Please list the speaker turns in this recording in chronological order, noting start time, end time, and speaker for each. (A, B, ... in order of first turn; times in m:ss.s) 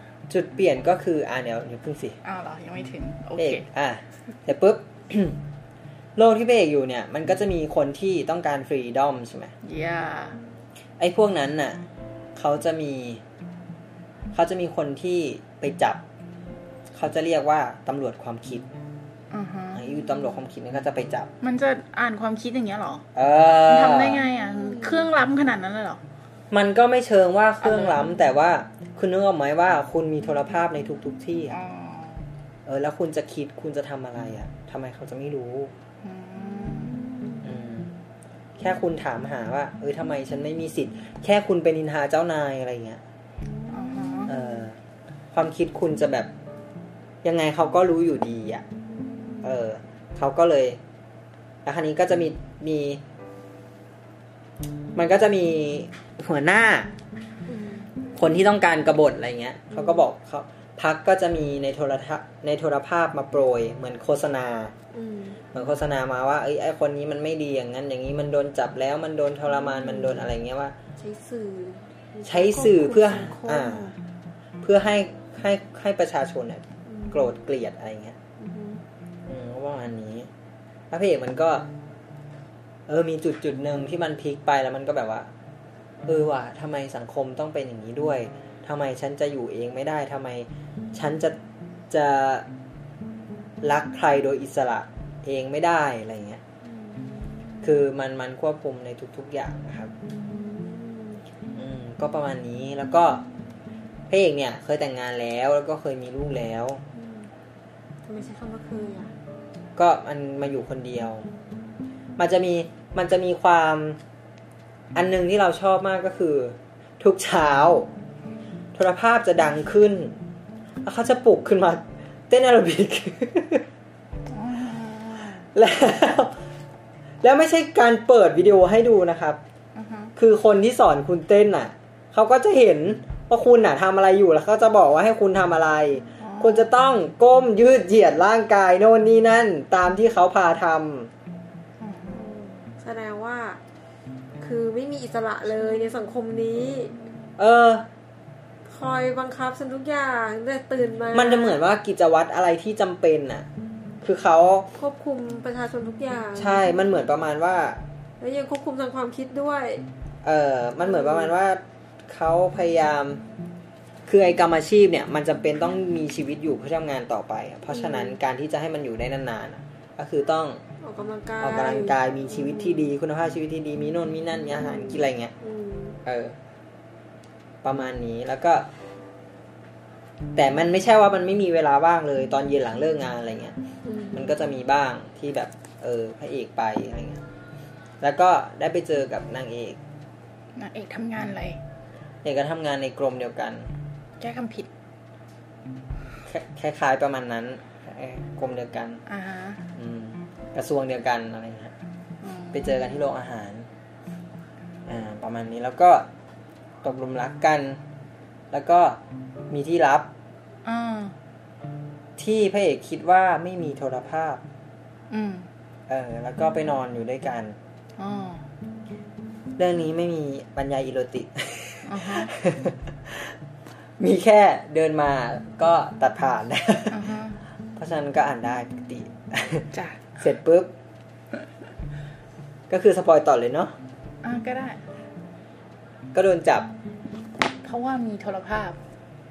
0:00.3-0:02.2 A
0:02.2-0:03.6 B
0:03.4-0:05.4 A
0:06.2-0:09.5 A
0:09.6-0:10.4 B
0:11.0-0:11.8 A
0:12.4-0:13.2 A
0:14.3-0:16.0 A
0:16.9-0:18.6 A
0:19.3-0:19.8 B
0:19.7-0:21.3 A
0:21.4-0:23.0 B
0:23.1-0:24.2 A
0:23.6-0:26.0 B
0:24.4-0:25.1 C
0:26.5-0:31.6 A
0:27.6-0:28.0 B
0:31.5-0:32.2 B
0:32.6-0:35.7 A
0:36.0-0:37.0 B
0:37.4-0:37.9 A
0:38.6-0:43.0 A
0:43.7-0:44.3 B
0:44.3-0:44.8 A
0:45.3-0:46.3 A
0:47.2-0:48.6 A
0:49.3-0:49.5 C
0:49.4-0:50.8 A
0:51.6-0:53.0 A
0:54.9-0:56.9 A
0:57.5-0:57.9 C
0:58.2-1:04.7 A
1:04.9-1:05.4 C
1:05.5-1:10.7 A
1:09.8-1:10.1 C
1:11.0-1:13.9 C
1:12.2-1:13.9 A
1:14.6-1:18.2 A
1:16.9-1:17.2 C
1:18.4-1:18.8 C
1:19.3-1:20.3 A
1:20.9-1:21.7 A
1:22.9-1:25.3 A
1:26.0-1:31.4 A
1:31.9-1:32.5 A
1:33.6-1:36.4 A
1:36.6-1:37.5 C
1:37.6-1:39.9 A
1:40.1-1:41.2 C
1:41.5-1:43.2 A
1:44.1-1:46.8 A
1:46.9-1:47.3 C
1:48.0-1:49.1 C
1:49.8-1:51.3 A
1:52.2-1:54.0 A
1:54.9-1:57.9 A
1:58.7-2:00.2 A
2:00.8-2:03.6 A
2:04.3-2:05.5 B
2:05.5-2:06.4 A
2:07.2-2:09.4 A
2:09.7-2:10.1 B
2:10.2-2:21.1 A
2:16.2-2:16.7 B
2:21.8-2:22.2 B
2:22.1-2:23.6 C
2:24.4-2:27.0 C
2:27.4-2:27.9 A
2:28.6-2:31.6 C
2:31.1-2:33.5 A
2:34.0-2:34.7 A
2:34.7-2:36.8 C
2:36.4-2:37.8 A
2:38.2-2:39.8 C
2:40.2-2:43.2 A
2:40.8-2:41.3 C
2:44.1-2:50.6 A
2:47.7-2:48.2 C
2:50.8-2:52.9 C
2:51.4-2:55.3 A
2:54.6-2:56.0 C
2:56.0-2:56.4 A
2:57.6-2:58.7 A
3:00.3-3:03.6 A
3:03.8-3:04.3 C
3:04.1-3:07.2 A
3:08.0-3:09.8 A
3:10.6-3:11.6 B
3:12.2-3:13.7 A
3:14.2-3:14.7 B
3:16.2-3:19.0 A
3:19.1-3:19.7 B
3:19.7-3:21.7 A
3:22.2-3:22.8 B
3:22.5-3:23.7 A
3:24.8-3:26.1 A
3:26.8-3:27.8 A
3:28.5-3:30.1 A
3:30.6-3:31.1 B
3:32.2-3:34.4 A
3:35.1-3:35.5 B
3:35.9-3:37.6 A
3:38.0-3:38.4 B
3:39.6-3:43.3 A
3:41.9-3:42.3 B
3:44.0-3:47.0 A
3:46.9-3:47.4 B
3:47.8-3:50.7 A
3:49.7-3:50.1 B
3:52.7-3:53.7 A
3:54.2-3:54.8 B
3:56.1-3:56.7 A
3:57.6-3:58.8 B